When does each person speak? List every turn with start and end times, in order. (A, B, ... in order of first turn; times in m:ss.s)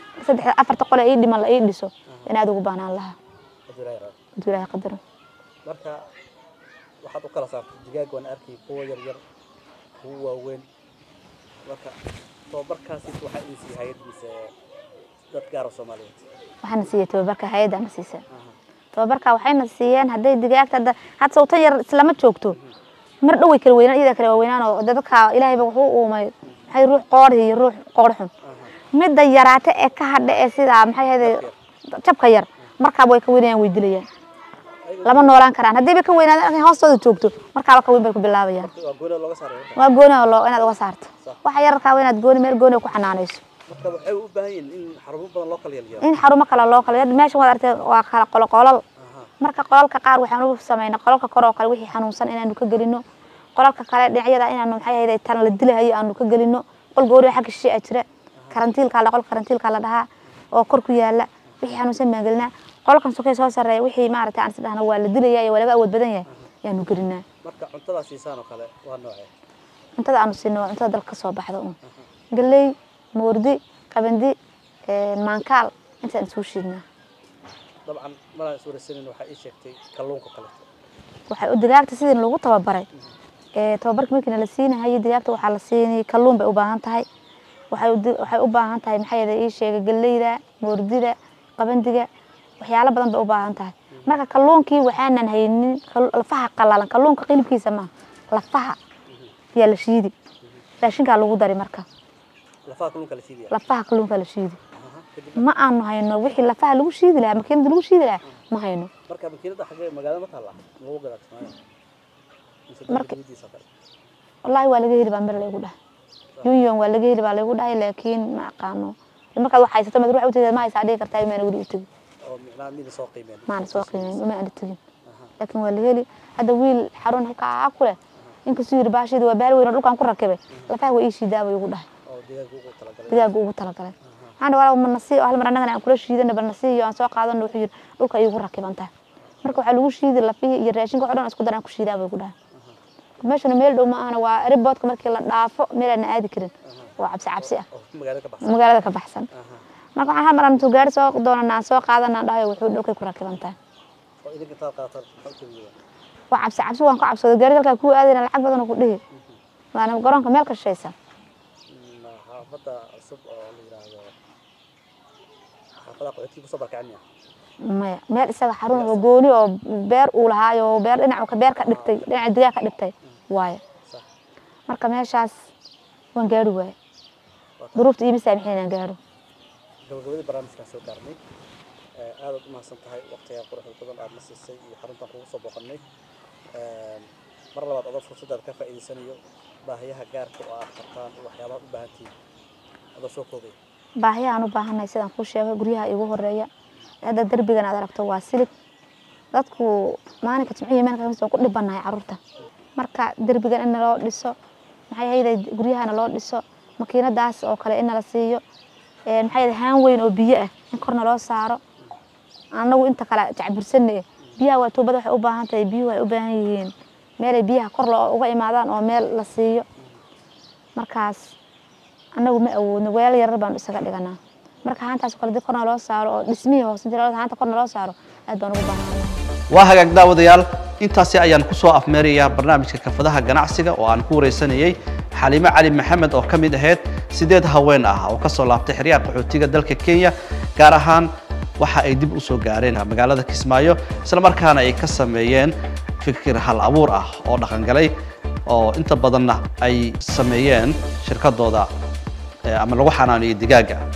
0:00.2-0:03.2 A
0:03.7-0:04.2 B
0:04.4-0:05.0 A
0:05.6-0:06.0 B
0:07.0-0:09.2 B
0:10.0-0:10.7 B
0:11.6-0:12.0 B
0:12.5-0:14.5 B
0:15.3-0:16.3 B
0:16.6-0:18.2 A
0:18.3-0:18.6 B
0:18.9-0:22.6 A
0:23.2-0:28.3 A
0:28.4-0:28.8 B
0:28.9-0:34.1 A
0:31.2-0:31.6 B
0:34.8-0:35.4 B
0:35.0-0:38.7 A
0:38.6-0:39.8 B
0:39.8-0:43.4 A
0:43.7-0:46.2 B
0:46.0-0:48.8 A
0:49.0-0:49.3 B
0:49.4-0:53.0 A
0:53.6-1:07.2 A
1:07.4-1:09.3 B
1:10.0-1:11.8 A
1:12.3-1:14.4 A
1:14.9-1:16.8 A
1:17.9-1:20.7 B
1:21.3-1:22.9 A
1:23.6-1:27.1 A
1:27.7-1:32.1 A
1:32.6-1:38.8 A
1:39.6-1:40.1 A
1:40.8-1:41.9 A
1:42.7-1:43.6 B
1:43.5-1:44.6 A
1:44.8-1:45.5 B
1:45.4-1:48.9 A
1:49.1-1:51.7 B
1:52.7-1:53.7 B
1:52.9-1:53.2 A
1:54.4-1:55.8 A
1:56.4-2:01.9 A
2:02.3-2:04.3 B
2:03.5-2:04.8 A
2:05.1-2:05.3 B
2:05.4-2:11.9 A
2:12.1-2:13.3 B
2:13.1-2:18.9 A
2:14.0-2:14.4 B
2:19.4-2:22.3 A
2:22.5-2:22.8 B
2:23.2-2:27.7 A
2:26.6-2:28.7 B
2:28.4-2:29.3 A
2:29.3-2:29.6 B
2:30.0-2:33.6 A
2:34.2-2:35.8 B
2:36.3-2:39.0 A
2:39.1-2:39.4 B
2:39.7-2:40.9 A
2:41.7-2:44.1 B
2:45.8-2:47.0 B
2:47.6-2:53.6 A
2:48.7-2:49.1 B
2:51.6-2:52.1 B
2:54.7-2:55.4 A
2:56.2-2:56.8 A
2:57.6-2:57.9 B
2:57.8-2:59.0 A
2:59.9-3:01.2 B
3:02.0-3:05.8 B
3:06.5-3:12.1 B
3:13.0-3:13.6 B
3:14.0-3:16.5 A
3:17.0-3:18.5 A
3:19.3-3:22.2 A
3:22.8-3:24.4 A
3:24.9-3:28.4 A
3:29.1-3:31.6 A
3:32.6-3:39.7 A
3:40.8-3:41.4 A
3:42.2-3:49.2 A
3:49.5-4:07.9 C
4:08.5-4:11.7 C
4:12.5-4:13.8 C